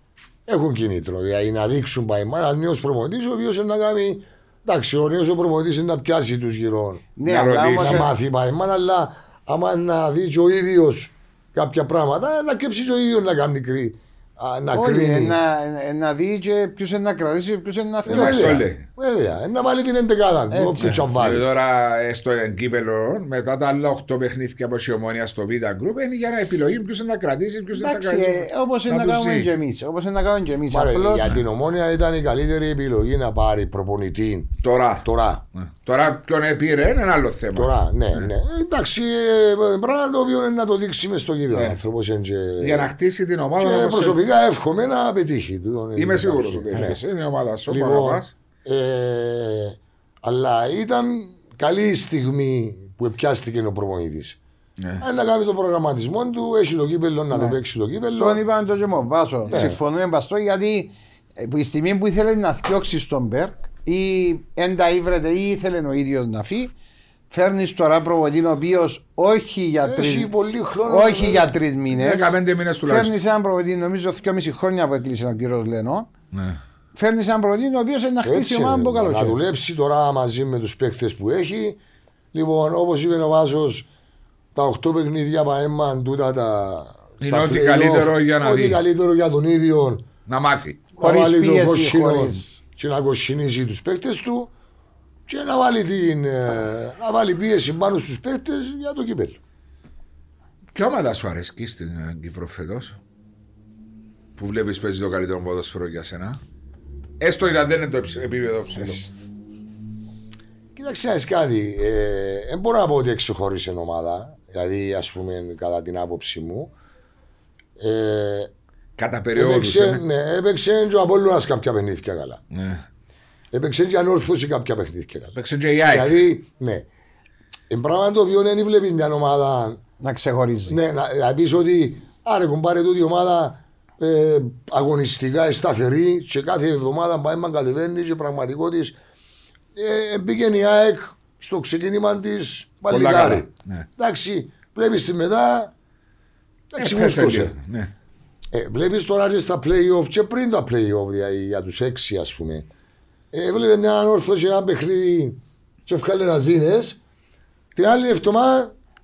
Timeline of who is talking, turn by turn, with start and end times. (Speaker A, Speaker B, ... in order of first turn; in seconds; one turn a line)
Speaker A: 0.5-7.0
Speaker B: 7.2-8.1
Speaker C: 7.2-8.1
Speaker A: 7.8-15.4
Speaker B: 14.7-18.6
Speaker C: 18.1-18.9
Speaker A: 18.1-21.4
Speaker B: 20.5-21.0
Speaker C: 20.8-29.5
Speaker B: 27.7-31.3
Speaker A: 30.7-35.4
Speaker C: 34.6-38.3
Speaker A: 37.5-42.9
Speaker C: 41.5-41.8
Speaker C: 42.6-44.2
Speaker A: 43.6-47.0
Speaker C: 46.0-48.3
Speaker A: 47.7-54.4
Speaker C: 54.8-55.0
Speaker A: 55.0-58.4
Speaker B: 57.3-57.6
Speaker B: 58.1-66.7
Speaker C: 59.5-59.8
Speaker A: 59.5-59.8
Speaker B: 67.3-70.3
Speaker A: 69.8-71.5
Speaker B: 70.8-76.1
Speaker C: 71.9-73.2
Speaker C: 76.3-76.6
Speaker B: 76.9-79.4
Speaker A: 78.2-81.8
Speaker A: 82.3-83.9
Speaker A: 84.5-90.0
Speaker C: 87.2-88.8
Speaker C: 90.3-90.8
Speaker A: 91.0-94.5
Speaker B: 91.0-92.5
Speaker A: 95.3-99.4
Speaker C: 100.7-103.0
Speaker C: 104.4-106.4
Speaker C: 107.2-109.1
Speaker A: 110.8-116.7
Speaker A: 117.8-118.5
Speaker C: 119.0-120.0
Speaker A: 119.3-122.4
Speaker C: 122.5-122.8
Speaker A: 123.5-126.9
Speaker C: 125.3-126.2
Speaker A: 127.7-129.8
Speaker B: 130.0-130.8
Speaker A: 130.7-139.0
Speaker A: 139.7-145.7
Speaker C: 142.9-143.9
Speaker A: 146.7-147.6
Speaker C: 146.8-147.9
Speaker A: 148.5-152.7
Speaker A: 153.3-157.0
Speaker A: 157.7-158.7